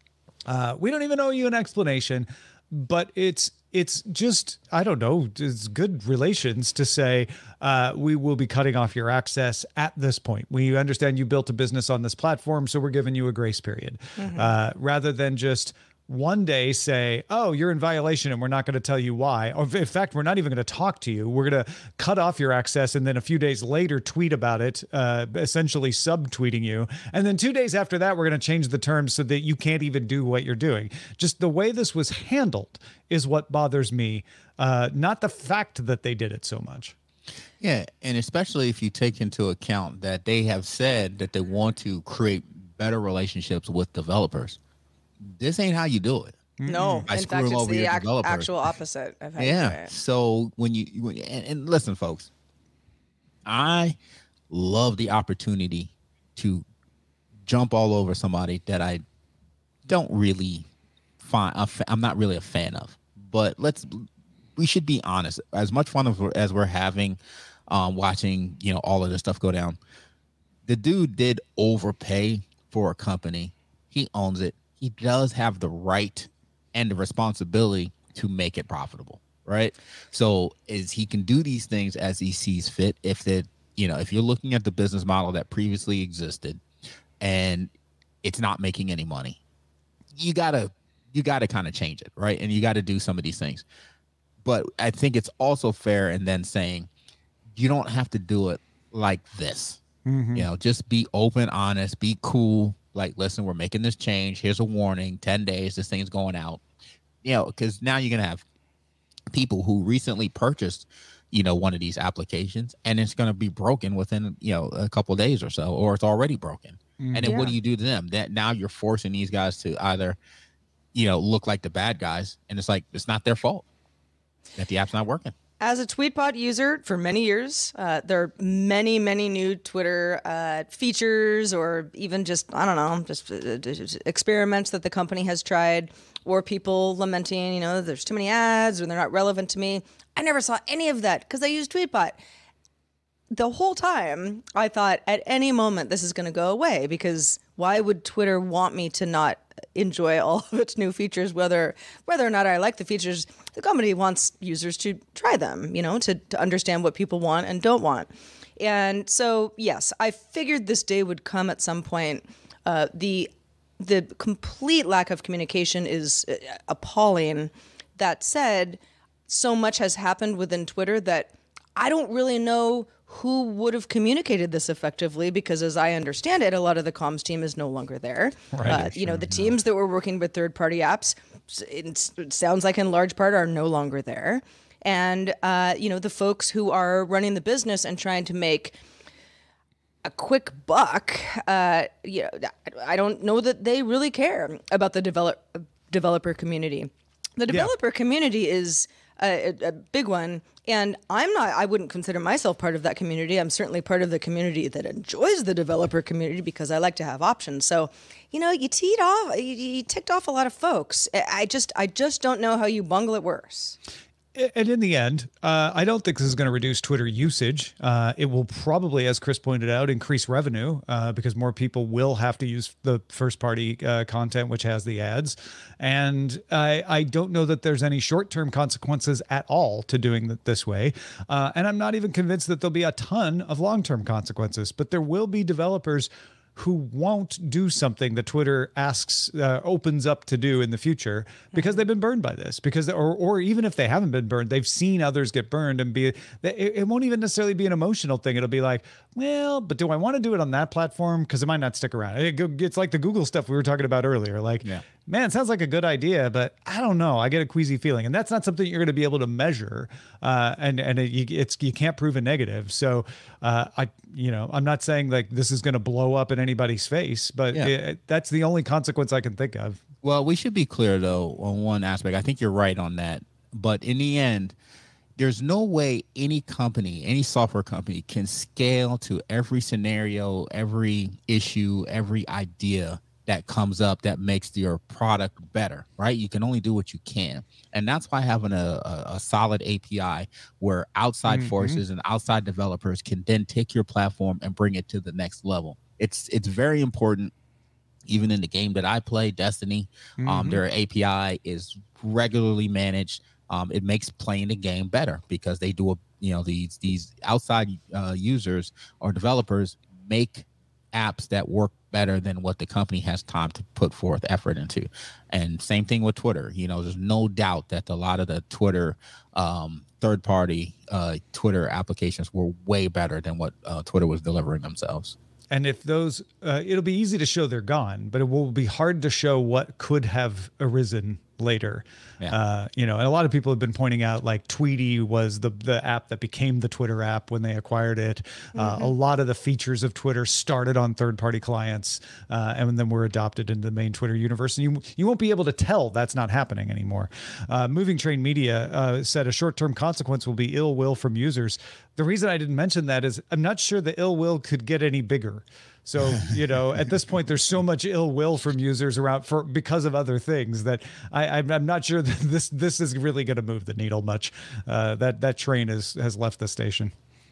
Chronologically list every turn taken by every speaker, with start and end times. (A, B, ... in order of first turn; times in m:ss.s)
0:00.5-0:36.9 A
0:14.2-0:14.5 B
0:37.6-0:44.6 C
0:45.2-0:46.5 C
0:46.6-0:47.1 A
0:46.6-0:49.9 B
0:47.0-0:48.5 C
0:49.4-0:52.3 C
0:53.4-0:54.0 C
0:54.5-0:56.6 C
0:57.4-0:59.0 C
0:59.8-1:00.7 C
1:01.2-1:09.8 C
1:10.6-1:26.6 C
1:27.2-1:27.7 C
1:28.2-1:29.4 C
1:30.1-1:33.6 C
1:34.4-1:36.9 C
1:37.5-1:39.8 C
1:40.0-1:40.5 A
1:40.3-1:46.6 C
1:47.2-1:48.4 C
1:49.3-2:00.2 C
1:57.0-1:57.4 A
1:57.2-1:57.5 B
2:00.9-2:03.6 C
2:04.6-2:05.3 C
2:05.6-2:22.2 B
2:23.3-3:08.8 B
2:58.5-2:59.3 A
3:10.0-3:33.8 B
3:34.3-4:29.8 A
4:01.5-4:01.8 B
4:30.0-4:34.5 C
4:35.2-4:57.3 C
4:51.3-4:51.8 A
4:58.0-5:25.2 C
5:00.2-5:00.6 A
5:25.5-6:06.9 A
5:38.6-5:38.9 B